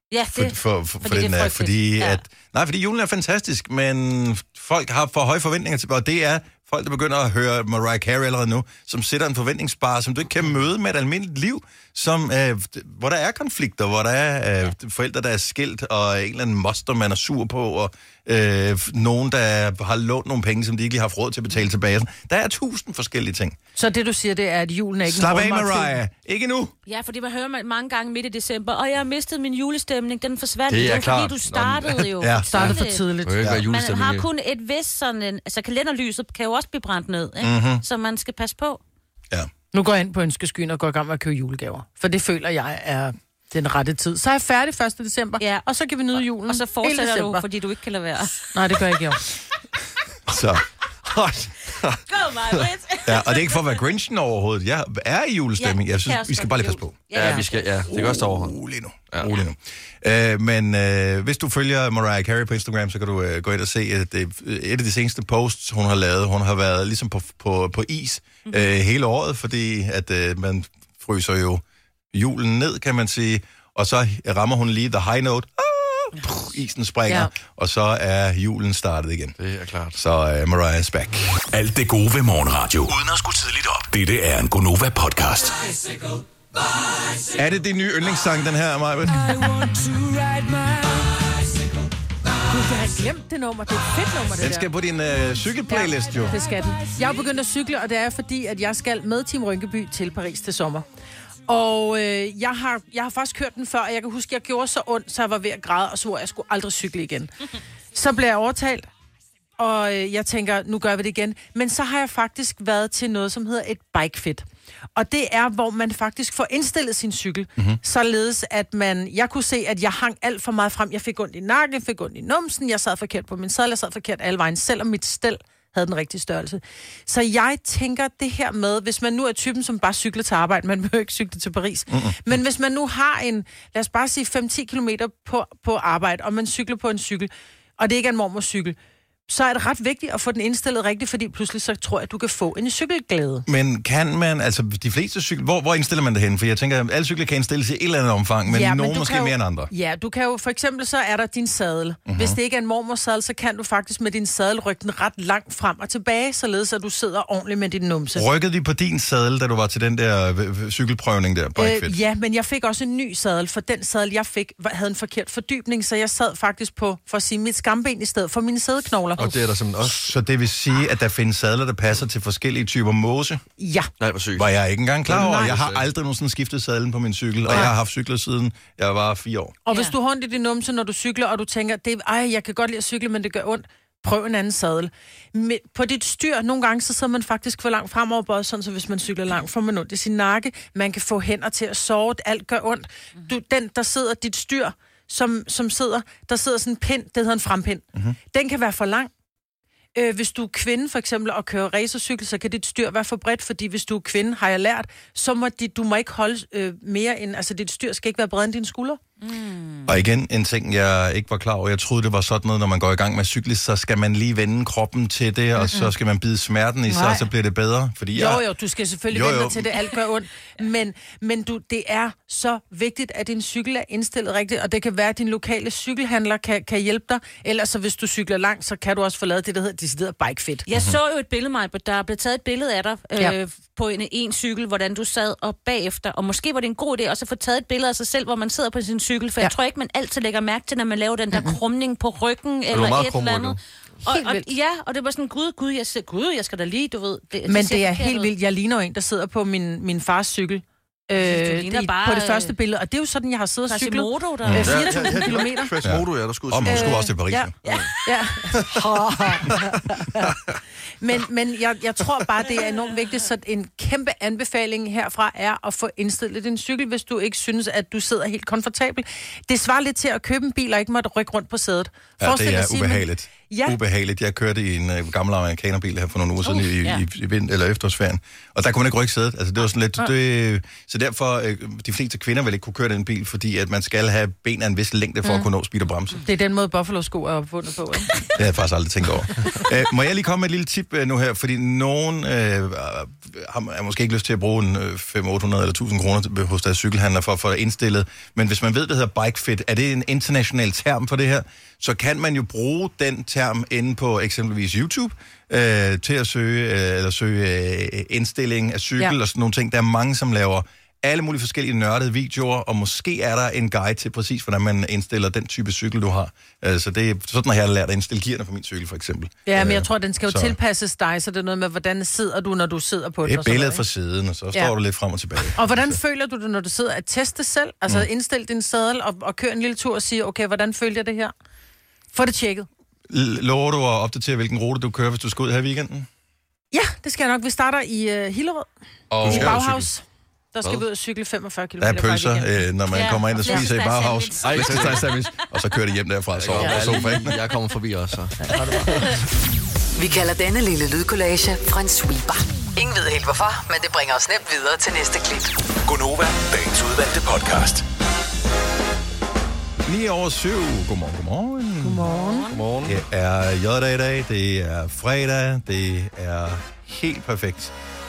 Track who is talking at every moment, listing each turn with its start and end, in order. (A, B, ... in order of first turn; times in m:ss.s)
0:00.1-0:02.2 A
0:00.3-0:23.6 B
0:23.8-0:26.0 C
0:25.0-0:26.7 B
0:26.9-0:33.1 A
0:30.7-0:32.7 D
0:32.2-0:32.7 B
0:32.5-0:33.4 C
0:33.2-0:34.2 D
0:33.4-0:33.6 B
0:33.6-0:38.8 A
0:37.4-0:37.8 B
0:39.7-0:47.4 C
0:45.4-0:48.5 A
0:48.5-0:49.2 C
0:50.3-0:50.6 B
0:51.0-0:52.6 D
0:52.1-0:53.8 A
0:53.0-0:57.3 B
0:55.6-0:58.0 A
0:57.1-0:58.6 D
0:57.9-1:19.4 B
1:19.4-1:20.0 D
1:19.9-1:21.4 B
1:21.5-1:25.6 E
1:27.3-1:29.5 B
1:30.0-1:30.6 A
1:32.5-1:34.7 C
1:34.4-1:36.4 B
1:35.7-1:40.8 C
1:41.5-1:47.3 C
1:47.9-1:48.9 C
1:49.6-1:54.4 C
1:55.0-2:18.8 C
2:11.9-2:12.2 B
2:19.3-2:23.5 C
2:23.5-2:29.7 B
2:28.5-2:38.2 C
2:32.1-2:32.4 B
2:38.1-2:42.0 B
2:41.6-2:49.3 C
2:49.2-2:50.0 D
2:49.8-2:53.4 B
2:53.6-2:53.9 C
2:54.0-2:54.5 D
2:54.4-2:59.6 B
2:55.0-2:55.9 D
2:55.2-2:55.5 C
2:59.6-3:19.1 C
3:19.9-3:29.0 C
3:29.2-3:29.9 A
3:29.9-3:38.4 B
3:36.9-3:37.3 C
3:38.1-3:50.6 C
3:39.1-3:39.8 B
3:50.7-4:08.3 A
4:02.7-4:03.6 D
4:04.0-4:04.5 C
4:07.5-4:15.8 C
4:11.2-4:12.5 A
4:13.7-4:15.3 A
4:14.4-4:14.8 B
4:14.6-4:17.0 D
4:15.8-4:17.5 B
4:16.6-4:20.4 C
4:18.5-4:20.6 D
4:21.0-4:33.8 C
4:32.2-4:46.2 B
4:36.4-4:37.0 A
4:46.2-4:48.1 C
4:48.4-5:20.6 B
5:19.5-5:23.8 C
5:23.2-5:26.0 B
5:25.5-5:31.3 C
5:32.1-5:32.7 C
5:33.1-5:36.1 B
5:36.7-5:38.7 C
5:39.1-5:39.9 B
5:39.2-5:42.5 C
5:39.2-5:39.6 D
5:41.8-5:47.4 B
5:42.9-5:45.2 A
5:44.4-5:45.2 D
5:46.4-5:49.2 D
5:46.6-5:47.1 C
5:48.4-5:49.0 C
5:50.0-5:55.5 F
5:55.8-5:57.8 E
5:59.8-6:02.1 B
6:01.8-6:02.5 C
6:02.1-6:02.6 A
6:02.5-6:03.0 D
6:02.8-6:07.7 B